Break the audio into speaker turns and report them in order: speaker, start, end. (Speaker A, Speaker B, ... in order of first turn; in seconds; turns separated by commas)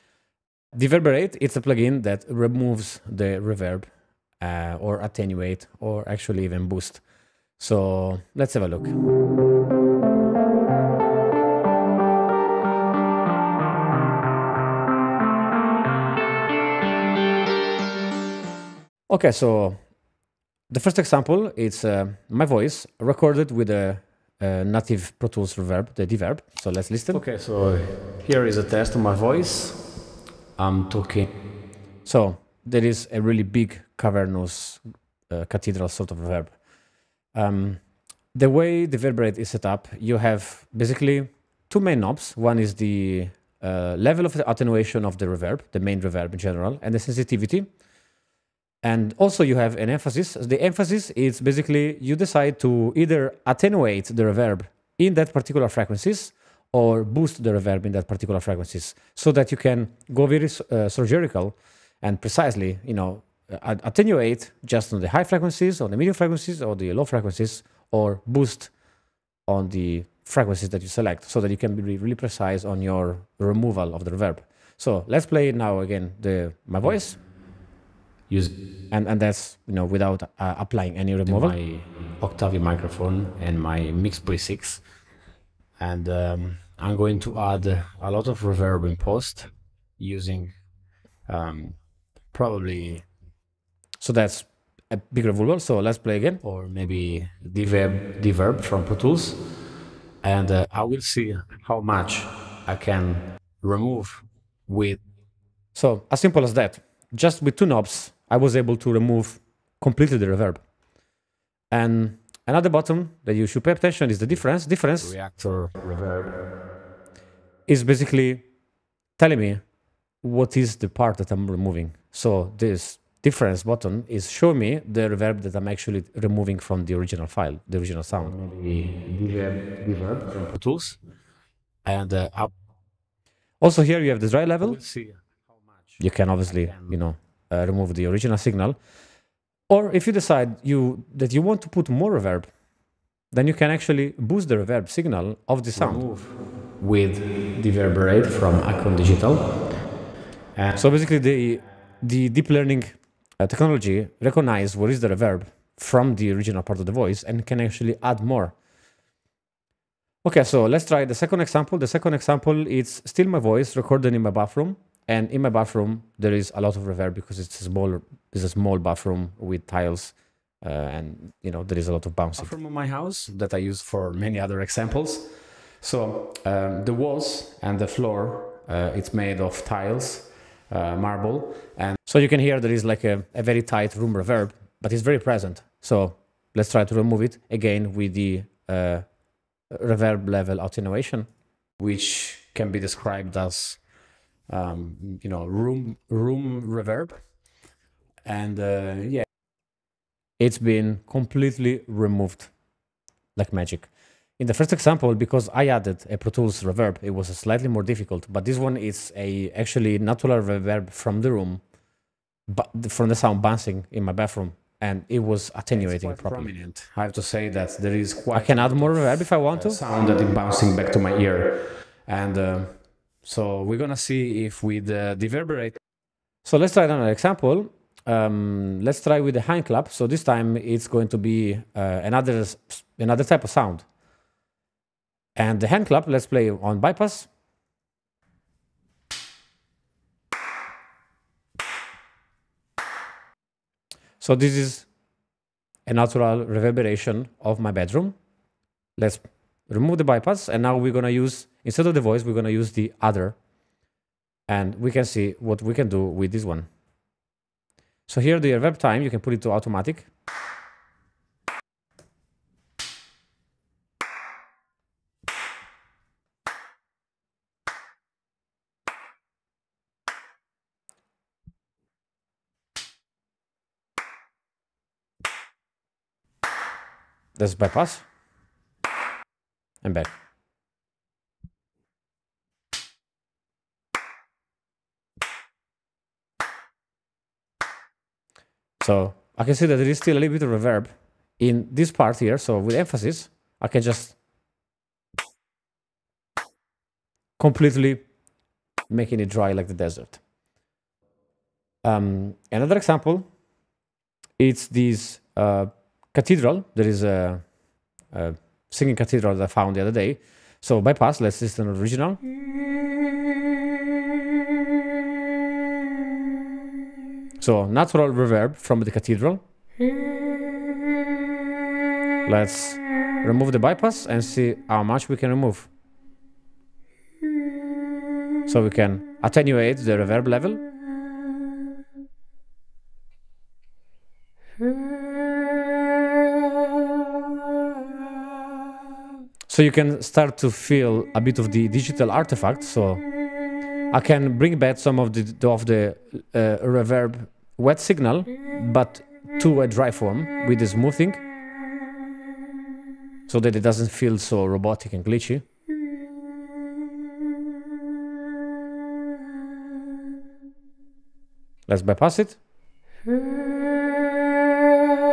Speaker A: 0.7-7.0, Speaker A: 7.6-8.9, Speaker A: 19.1-19.8, Speaker A: 20.7-27.2, Speaker B: 27.1-29.8, Speaker B: 30.6-31.3, Speaker A: 32.0-36.6, Speaker A: 37.3-37.8, Speaker A: 38.3-47.7, Speaker A: 48.8-68.7, Speaker A: 69.5-77.2, Speaker A: 78.9-81.5, Speaker B: 81.2-84.8, Speaker B: 85.8-90.5, Speaker B: 91.3-91.8, Speaker B: 92.3-93.0, Speaker A: 94.0-96.4, Speaker B: 96.4-99.4, Speaker B: 100.2-105.0, Speaker A: 105.7-110.6, Speaker A: 111.7-115.1, Speaker B: 115.0-116.4, Speaker A: 117.7-118.4, Speaker A: 119.2-119.6, Speaker A: 120.2-128.3, Speaker B: 128.2-131.0, Speaker B: 131.8-132.5, Speaker A: 133.6-134.8, Speaker B: 134.6-136.9, Speaker A: 136.0-138.8, Speaker A: 139.7-142.5, Speaker A: 143.3-146.0, Speaker B: 145.7-149.5, Speaker B: 150.6-150.8, Speaker A: 150.8-158.5, Speaker A: 160.2-172.5, Speaker B: 172.4-175.3, Speaker B: 175.8-181.9, Speaker A: 182.0-189.1, Speaker A: 189.7-191.3, Speaker B: 191.8-193.8, Speaker B: 194.5-197.2, Speaker B: 198.2-199.2, Speaker A: 200.4-202.5, Speaker A: 203.3-211.6, Speaker A: 212.5-216.5, Speaker B: 215.7-225.8, Speaker A: 218.3-219.8, Speaker A: 226.4-233.9, Speaker A: 235.3-237.3, Speaker A: 244.2-244.9, Speaker A: 245.8-248.1, Speaker A: 249.0-253.4, Speaker A: 254.5-256.7, Speaker A: 258.1-260.1, Speaker A: 277.4-278.1, Speaker A: 279.8-280.1, Speaker A: 288.8-294.2, Speaker A: 297.4-298.0, Speaker A: 298.9-300.2, Speaker A: 301.8-303.2, Speaker A: 304.4-307.4, Speaker A: 308.1-312.2, Speaker A: 317.4-319.4, Speaker A: 322.2-325.7, Speaker A: 328.4-330.6, Speaker A: 339.5-343.1, Speaker A: 343.9-351.2, Speaker A: 353.3-355.4, Speaker A: 361.7-362.4